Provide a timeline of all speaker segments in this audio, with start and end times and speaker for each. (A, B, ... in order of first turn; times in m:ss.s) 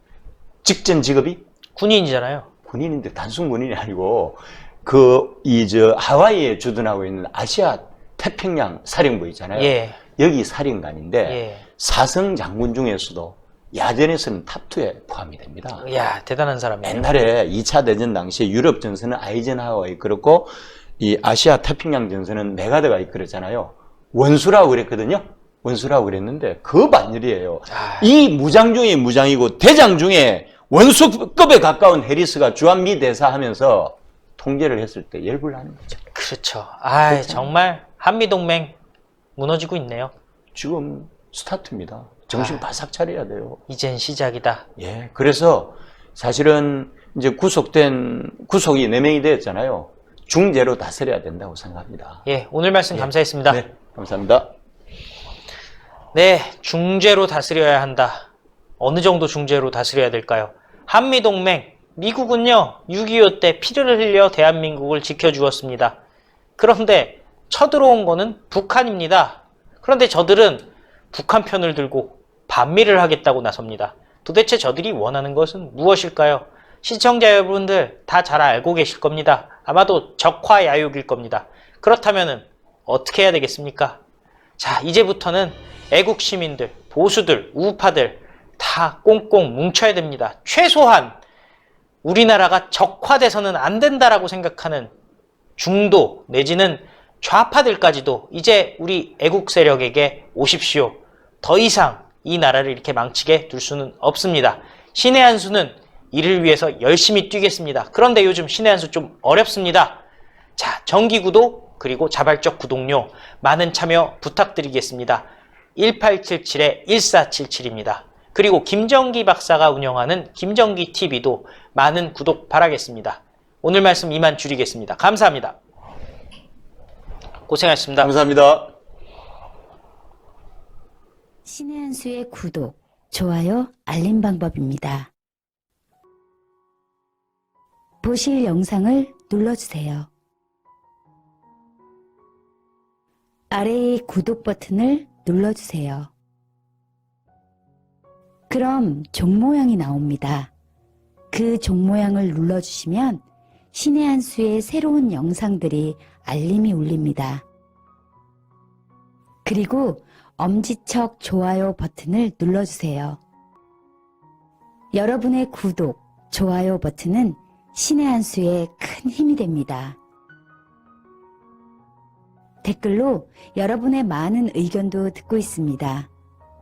0:00.6-0:01.4 A
0:01.8-0:02.5 B
0:02.7-0:15.8 A
0:09.6-0:10.0 B
0:11.3-0:11.6 B
0:15.8-0:17.1 B
0:16.8-0:36.0 A
0:27.7-0:28.1 B
0:36.1-0:38.8 B
0:37.1-0:37.5 A
0:39.4-0:40.1 B
0:40.6-0:43.6 A
0:42.3-0:42.6 B
0:43.7-0:44.6 B
0:44.8-0:52.2 A
0:52.3-0:53.6 B
0:52.9-0:54.5 A
0:56.1-0:58.3 B
0:58.8-1:06.0 B
1:06.6-1:24.0 B
1:24.6-1:31.2 B
1:32.0-1:34.9 B
1:35.6-1:50.0 B
1:50.6-2:05.6 B
2:07.5-2:08.1 B
2:08.0-2:08.7 A
2:11.5-2:15.1 C
2:18.0-2:20.1 C
2:23.5-2:26.1 C
2:28.5-2:30.5 C
2:31.3-2:37.4 C
2:39.4-2:43.2 C
2:45.0-2:50.0 C
2:52.6-2:56.1 C